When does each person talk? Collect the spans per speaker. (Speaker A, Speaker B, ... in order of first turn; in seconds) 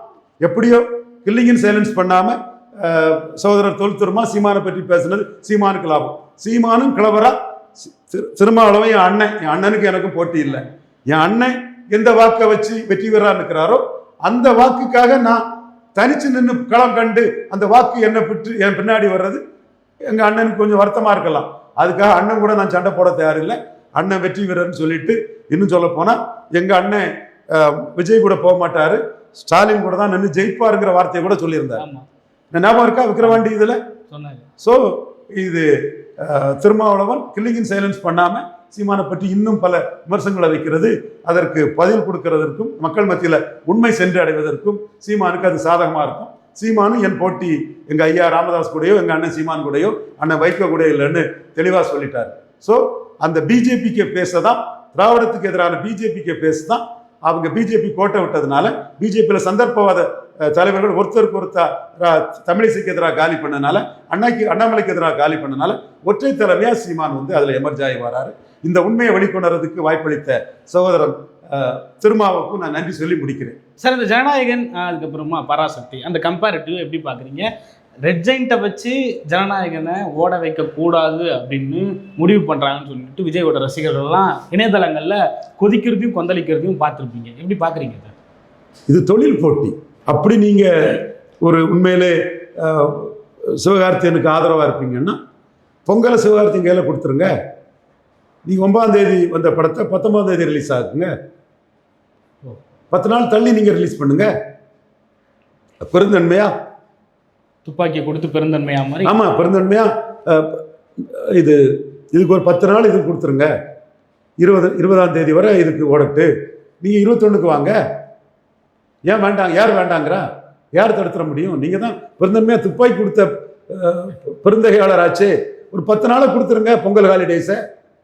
Speaker A: 0.4-15.4, 15.9-19.4, 20.1-31.8, 32.5-33.8, 34.6-73.6, 88.9-95.2, 95.8-97.3, 98.5-101.1, 102.9-104.3, 105.8-106.5, 109.0-111.6, 112.1-113.5, 114.4-116.3, 116.8-117.8, 119.0-127.6
Speaker B: 31.8-32.0, 34.1-34.5, 73.8-77.5, 78.0-88.1, 107.6-109.2